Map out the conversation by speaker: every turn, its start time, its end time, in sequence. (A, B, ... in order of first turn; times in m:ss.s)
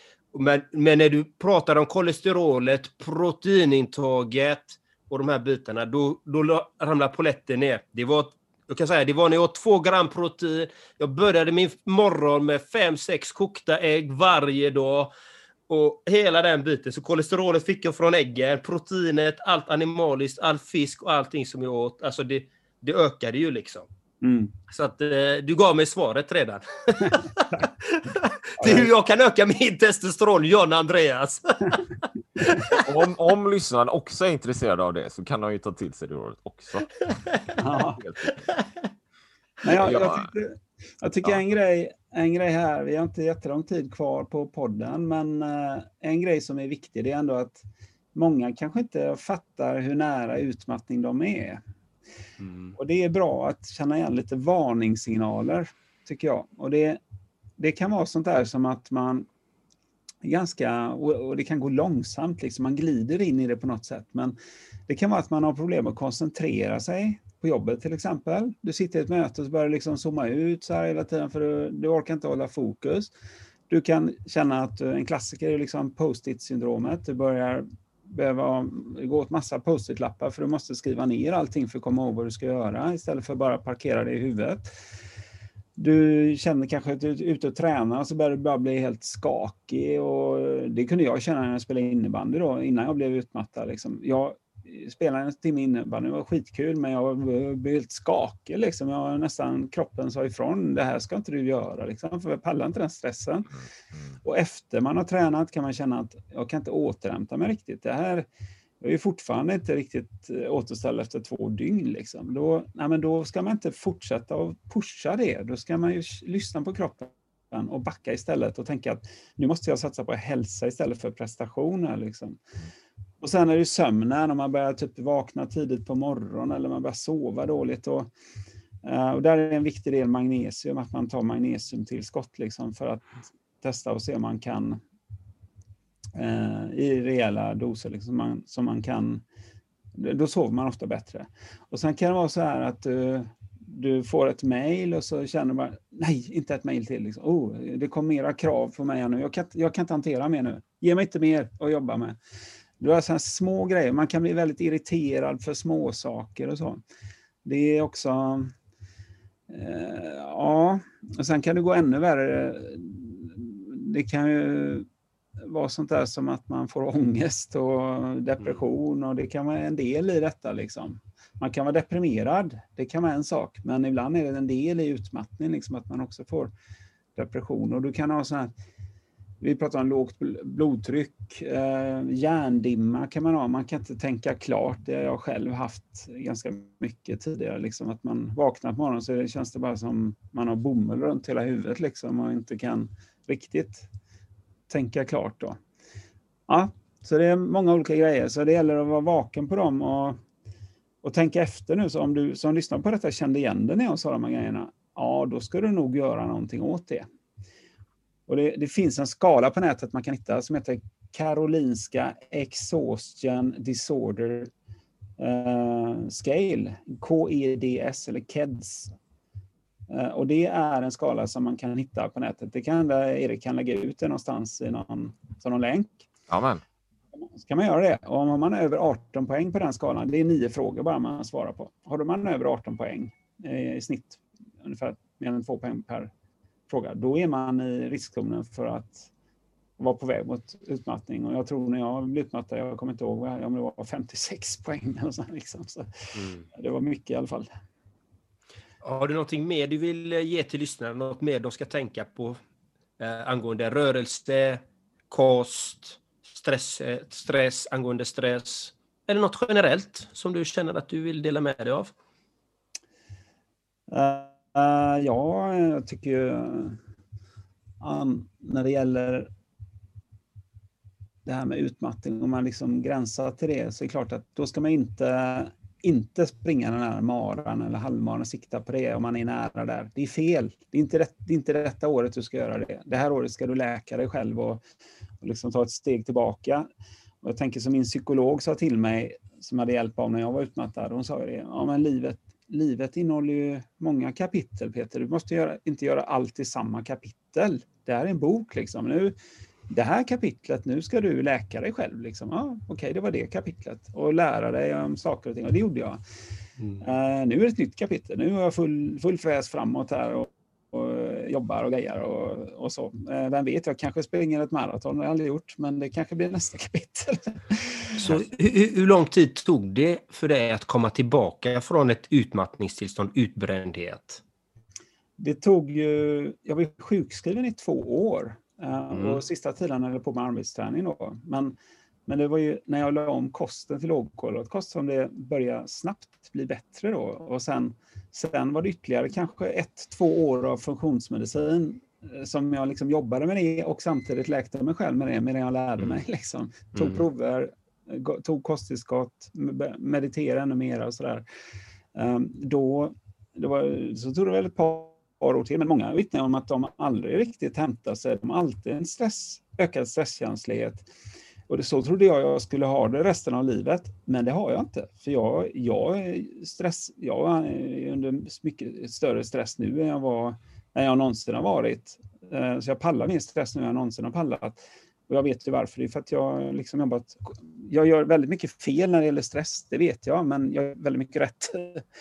0:00.3-0:15.1 A
0:15.7-0:23.9 A
0:24.2-0:24.5 B
0:24.7-0:32.8 A
0:28.6-0:28.9 B
0:32.7-0:37.1 C
0:37.6-0:38.0 B
0:37.9-0:38.4 C
0:39.6-0:51.6 B
0:39.7-0:40.3 C
0:52.4-0:52.7 A
0:52.8-0:57.0 B
0:57.6-0:59.3 B
1:00.2-1:04.4 B
1:04.9-1:13.1 B
1:13.7-1:24.7 B
1:25.8-1:43.5 B
1:44.2-1:48.2 B
1:48.8-2:02.4 B
2:03.2-2:08.1 B
2:08.8-2:14.8 B
2:16.2-2:19.2 B
2:20.0-2:32.2 B
2:32.8-2:36.8 B
2:37.4-2:38.5 B
2:39.5-2:44.8 B
2:45.4-2:56.5 B
2:57.2-2:58.5 B
2:59.4-3:13.9 B
3:14.7-3:15.6 B
3:16.5-3:20.2 B
3:21.0-3:27.0 B
3:28.3-3:34.5 B
3:35.2-3:38.9 B
3:39.9-3:46.1 B
3:46.3-3:46.6 C
3:47.2-3:56.1 B
3:56.7-3:59.1 B
3:59.8-4:05.9 B
4:06.1-4:06.4 A
4:06.5-4:07.5 B
4:08.8-4:12.4 A
4:13.0-4:21.9 A
4:23.9-4:26.8 B
4:27.8-4:29.3 B
4:31.2-4:44.6 B
4:45.2-4:46.6 B
4:47.2-4:59.1 B
4:59.7-5:06.0 B
5:06.6-5:06.8 A
5:06.8-5:18.2 B
5:18.0-5:24.2 A
5:25.2-5:31.5 B
5:28.9-5:29.2 A
5:32.1-5:51.2 B
5:46.7-5:47.0 A
5:51.9-6:00.9 B
6:01.5-6:21.8 B